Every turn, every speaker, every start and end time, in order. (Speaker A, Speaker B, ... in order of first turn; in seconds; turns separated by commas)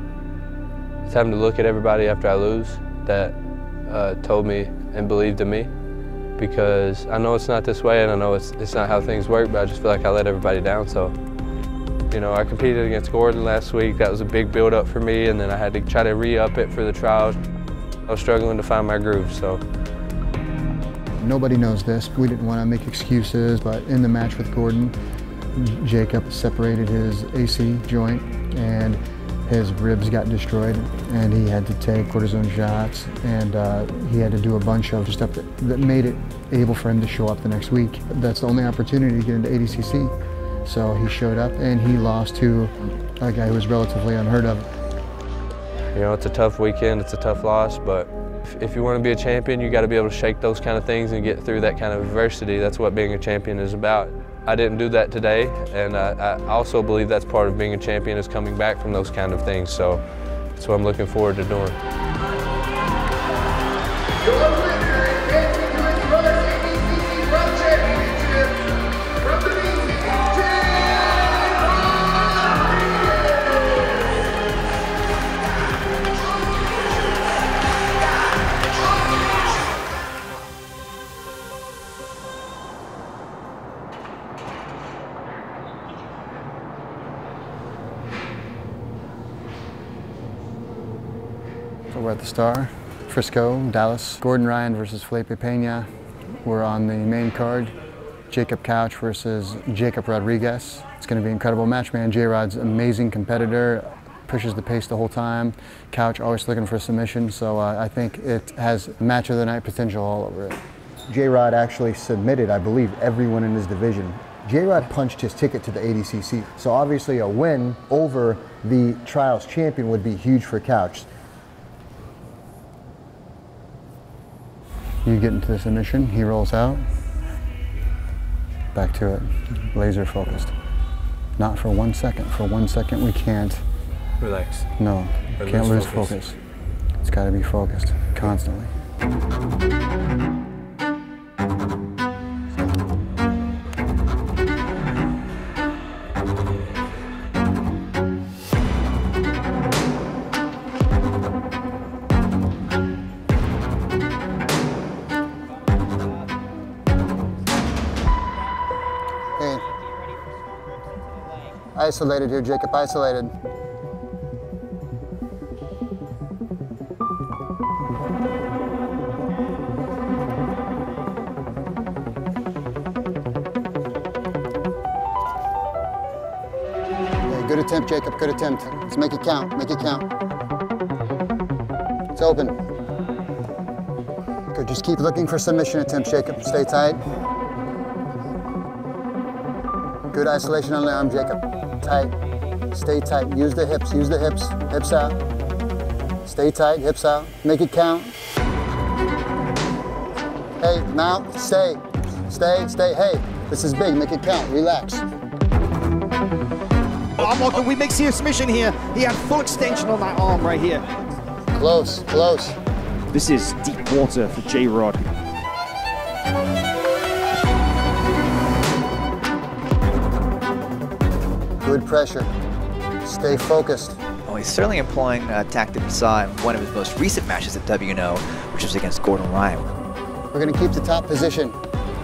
Speaker A: 1.1-5.7, Speaker A: 6.4-11.1, Speaker A: 12.1-17.4, Speaker A: 18.1-19.6, Speaker B: 21.2-24.9, Speaker B: 25.5-40.1, Speaker B: 40.6-44.7, Speaker A: 45.9-60.0, Speaker A: 60.5-61.8, Speaker B: 91.9-95.9, Speaker B: 96.4-97.7, Speaker B: 98.3-121.1, Speaker B: 125.0-126.8, Speaker B: 128.7-130.5, Speaker B: 131.4-133.6, Speaker A: 134.2-134.7, Speaker B: 134.8-136.4, Speaker A: 135.3-136.2, Speaker B: 137.0-138.7, Speaker B: 159.4-159.7, Speaker B: 161.7-163.3, Speaker B: 177.3-180.1, Speaker B: 182.1-182.6, Speaker B: 184.5-187.0, Speaker B: 190.1-192.1, Speaker B: 192.7-195.2, Speaker B: 196.2-198.1, Speaker B: 200.6-205.0, Speaker C: 207.2-210.8, Speaker B: 211.5-212.6, Speaker C: 213.1-215.2, Speaker B: 221.6-222.3, Speaker B: 223.0-224.0, Speaker D: 224.2-229.7, Speaker B: 230.3-231.6